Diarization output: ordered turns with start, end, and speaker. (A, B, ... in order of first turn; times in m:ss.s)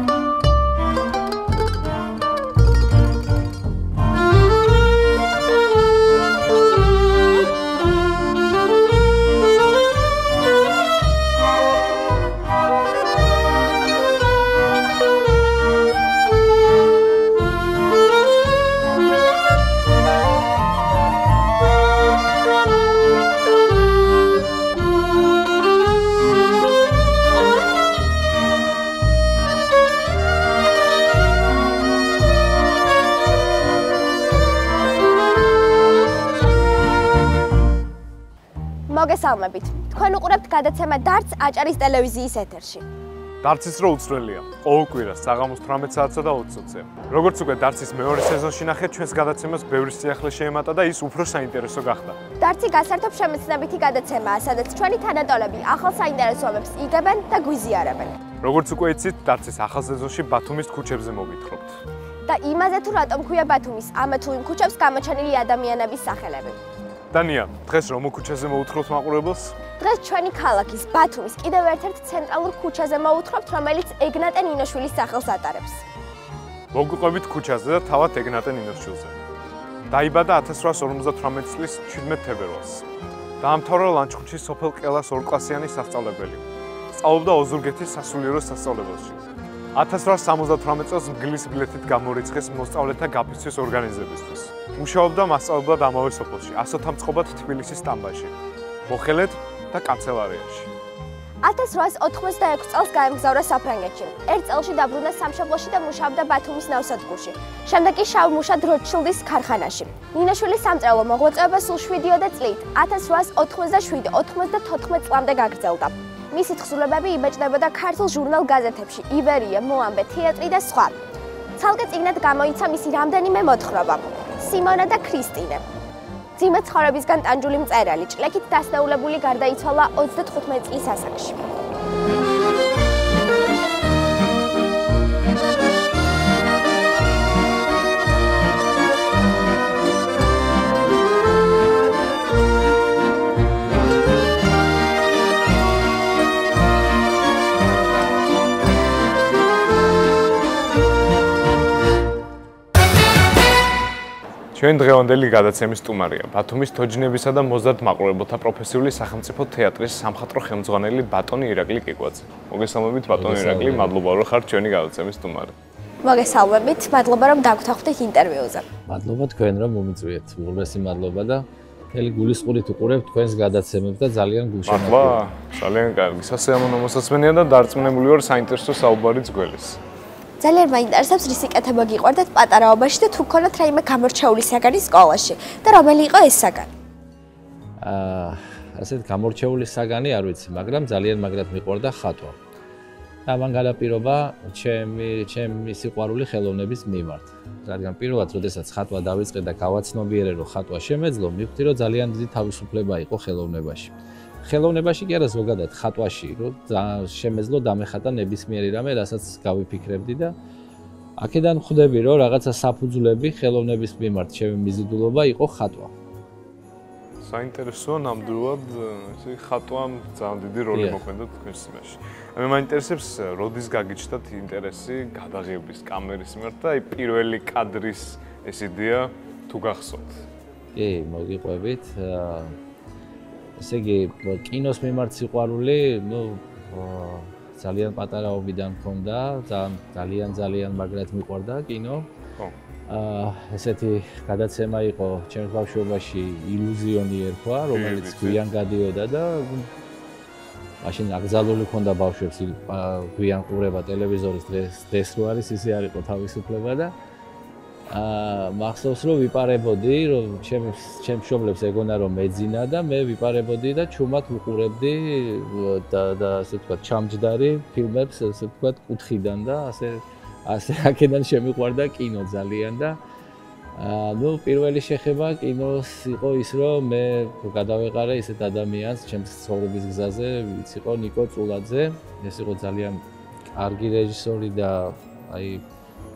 0:38.9-0:42.9 A
0:43.4-0:52.2 B
0:52.4-0:58.2 A
0:58.4-1:01.8 B
1:02.3-1:06.6 A
1:07.1-1:09.6 B
1:09.8-1:15.8 A
1:16.7-1:19.2 B
1:19.9-1:22.8 B
1:23.4-1:29.2 B
1:29.7-1:38.3 B
1:38.9-1:40.7 B
1:41.4-2:01.0 A
2:01.6-2:05.6 A
2:06.4-2:11.4 A
2:34.5-2:45.5 B
2:43.1-2:43.9 C
2:46.0-2:48.7 A
2:48.9-2:55.2 C
2:54.7-2:59.8 B
3:00.4-3:06.7 A
3:07.8-3:12.4 C
3:13.3-3:30.4 C
3:31.2-3:35.9 C
3:37.2-3:50.2 B
3:40.7-3:41.0 C
3:50.8-3:52.6 C
3:53.6-4:02.1 C
4:02.9-4:09.7 C
4:07.7-4:08.4 B
4:10.8-4:16.9 C
4:17.9-4:33.0 C
4:33.8-4:43.0 C
4:43.6-4:45.6 C